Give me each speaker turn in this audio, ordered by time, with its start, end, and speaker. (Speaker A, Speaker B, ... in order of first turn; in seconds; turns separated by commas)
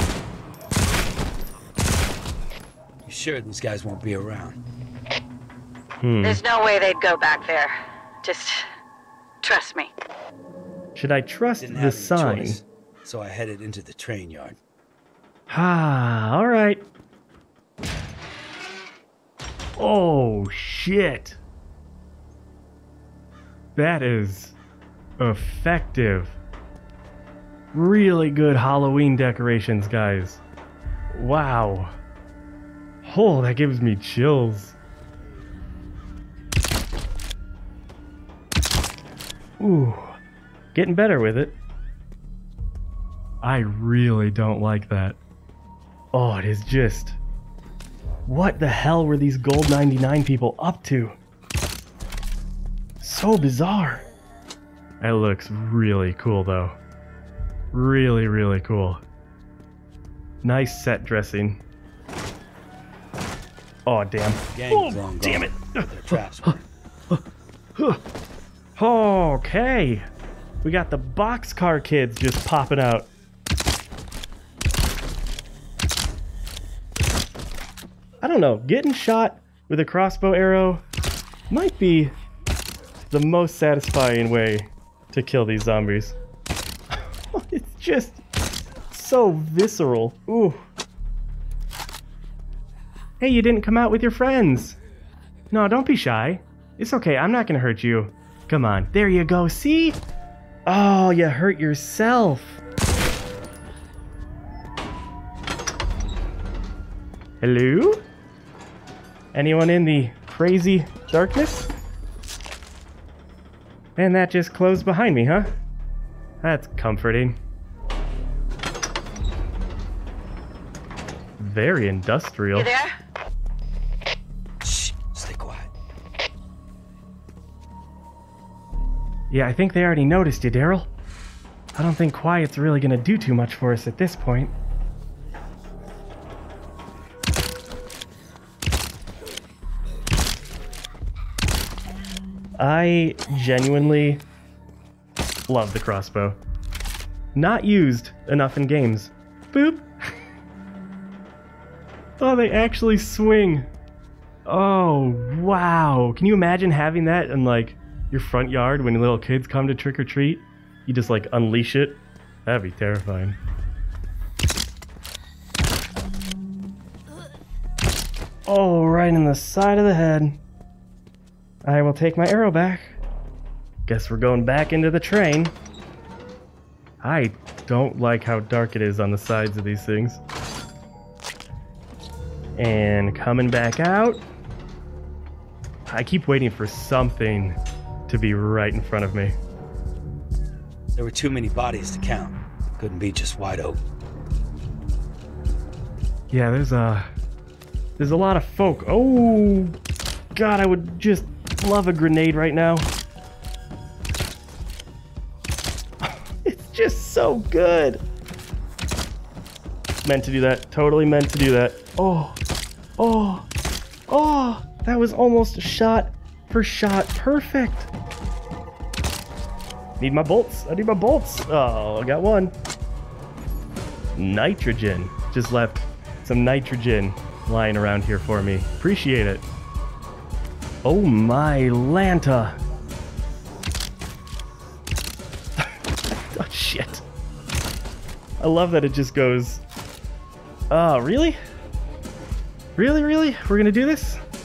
Speaker A: 3.0-4.6, Speaker B: 6.0-6.4, Speaker C: 6.2-8.7, Speaker C: 9.4-9.9, Speaker B: 10.9-12.6, Speaker A: 11.6-14.6, Speaker B: 15.5-16.8, Speaker B: 19.8-21.4, Speaker B: 23.8-24.6, Speaker B: 25.2-26.4, Speaker B: 27.7-30.4, Speaker B: 31.1-31.9, Speaker B: 33.0-34.8, Speaker B: 39.6-40.2, Speaker B: 40.7-41.6, Speaker B: 43.4-45.2, Speaker B: 46.1-47.2, Speaker B: 48.3-51.1, Speaker B: 53.0-54.0, Speaker B: 55.0-56.8, Speaker B: 57.7-59.0, Speaker B: 60.4-61.6, Speaker B: 63.9-66.6, Speaker A: 64.5-66.6, Speaker B: 68.8-70.1, Speaker B: 70.6-73.1, Speaker B: 78.2-80.8, Speaker B: 81.5-82.1, Speaker B: 83.0-86.2, Speaker B: 86.9-88.2, Speaker B: 88.9-90.6, Speaker B: 93.2-94.8, Speaker B: 95.5-100.0, Speaker B: 100.7-102.6, Speaker B: 107.4-108.0, Speaker B: 109.3-111.7, Speaker B: 114.0-115.5, Speaker B: 116.4-117.4, Speaker B: 121.4-122.7, Speaker C: 122.5-122.9, Speaker A: 124.6-125.7, Speaker B: 129.3-130.9, Speaker B: 131.8-134.5, Speaker B: 142.6-144.2, Speaker B: 145.5-146.4, Speaker B: 147.3-150.1, Speaker B: 152.2-153.7, Speaker B: 154.5-163.4, Speaker B: 168.5-170.4, Speaker B: 171.6-173.0, Speaker B: 173.9-175.6, Speaker B: 177.0-180.2, Speaker B: 182.6-184.2, Speaker B: 185.9-187.6, Speaker B: 188.1-189.4, Speaker A: 191.0-193.8, Speaker B: 196.3-197.1, Speaker B: 198.0-199.8, Speaker B: 200.3-202.9, Speaker B: 206.0-208.0, Speaker B: 210.0-212.4, Speaker B: 213.0-213.5, Speaker B: 214.1-217.9, Speaker B: 220.0-222.5, Speaker B: 224.2-229.4, Speaker B: 230.8-232.6, Speaker B: 236.3-237.0, Speaker B: 238.4-239.6, Speaker B: 240.7-241.4, Speaker B: 242.8-244.2